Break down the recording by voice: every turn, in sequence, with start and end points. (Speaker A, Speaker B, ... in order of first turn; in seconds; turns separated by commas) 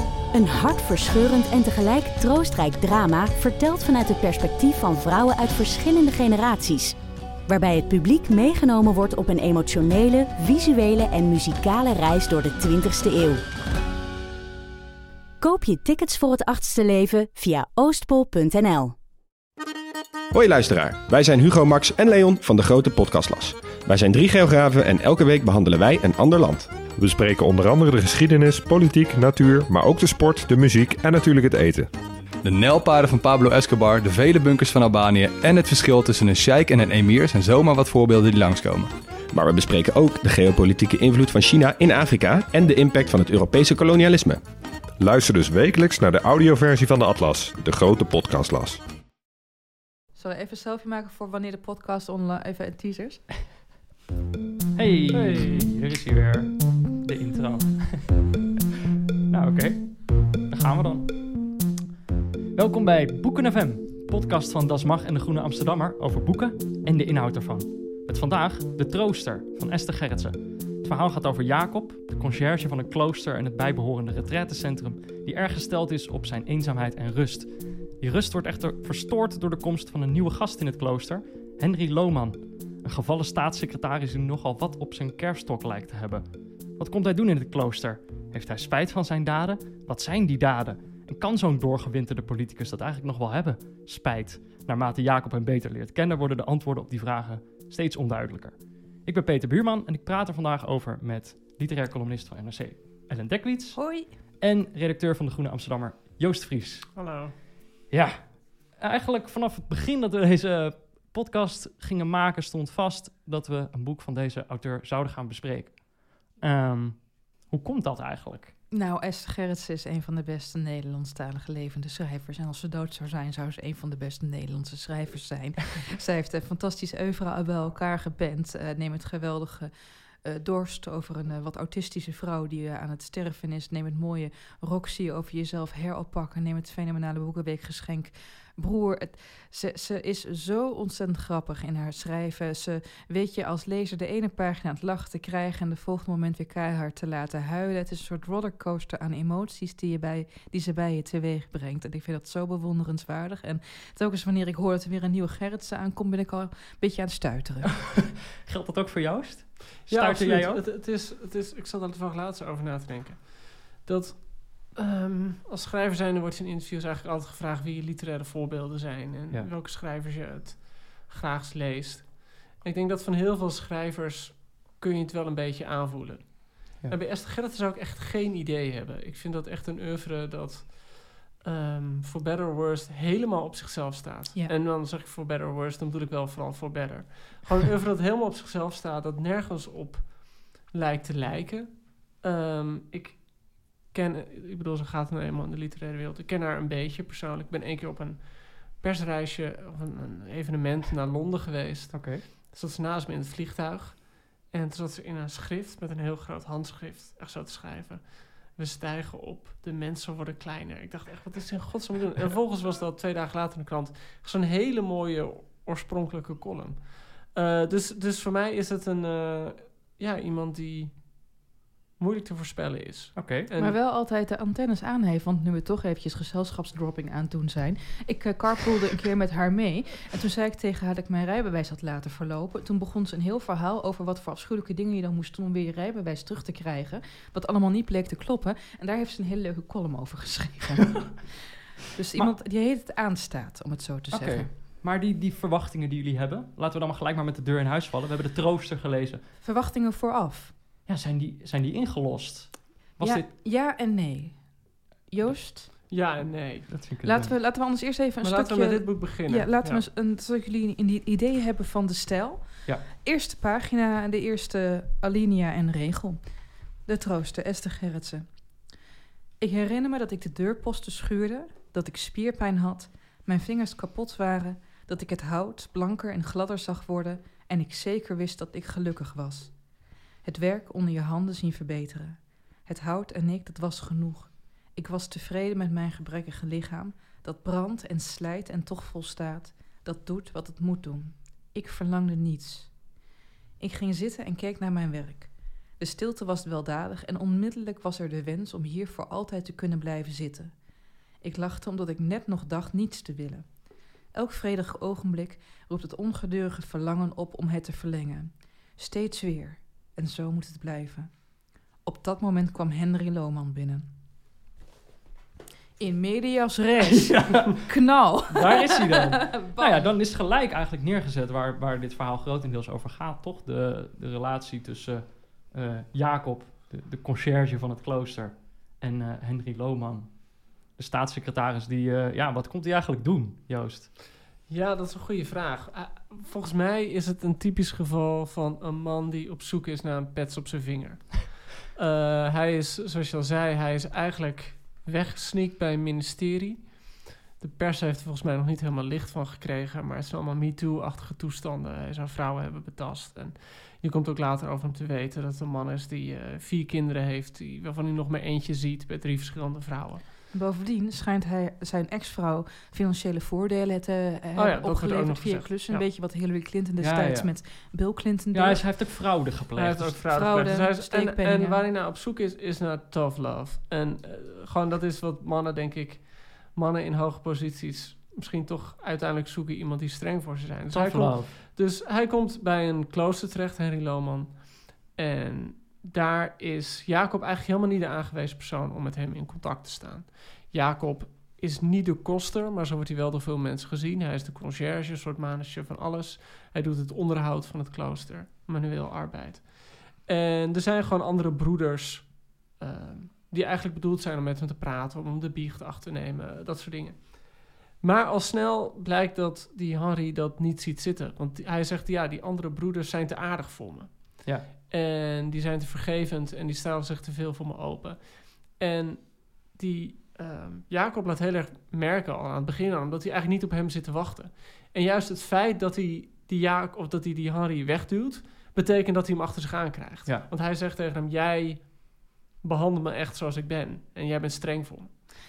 Speaker A: 0.3-6.9, Speaker A: 7.5-13.4, Speaker A: 15.4-18.9, Speaker B: 20.3-26.7, Speaker C: 26.9-31.9, Speaker D: 32.4-38.9, Speaker B: 39.3-44.4, Speaker C: 45.0-48.8, Speaker E: 50.1-53.3, Speaker F: 54.7-58.2, Speaker G: 55.1-55.5, Speaker F: 59.3-61.5, Speaker F: 62.5-86.2, Speaker F: 86.8-103.8, Speaker E: 103.7-104.1, Speaker F: 104.4-106.9, Speaker G: 107.0-107.3, Speaker F: 107.9-118.5, Speaker E: 118.7-129.7, Speaker E: 130.2-157.7, Speaker F: 157.8-160.6, Speaker G: 159.9-221.3, Speaker F: 201.9-202.2, Speaker G: 222.0-223.8, Speaker F: 223.2-223.5, Speaker E: 223.6-241.4, Speaker E: 241.9-244.5, Speaker F: 244.1-249.2, Speaker E: 249.4-250.5, Speaker F: 250.8-253.3, Speaker E: 253.0-255.7, Speaker G: 255.9-256.7, Speaker F: 256.7-257.3, Speaker E: 257.0-266.2, Speaker G: 258.2-259.8, Speaker E: 266.8-268.5, Speaker E: 269.4-279.6, Speaker E: 280.2-292.8, Speaker E: 293.6-300.5, Speaker E: 301.2-303.6, Speaker E: 304.1-313.9, Speaker E: 315.8-319.9, Speaker F: 316.8-333.9, Speaker G: 334.5-360.0, Speaker E: 360.3-368.6, Speaker G: 364.4-365.8, Speaker F: 366.8-367.3, Speaker F: 368.3-370.0, Speaker G: 369.5-434.9, Speaker E: 370.1-371.6, Speaker F: 380.7-381.4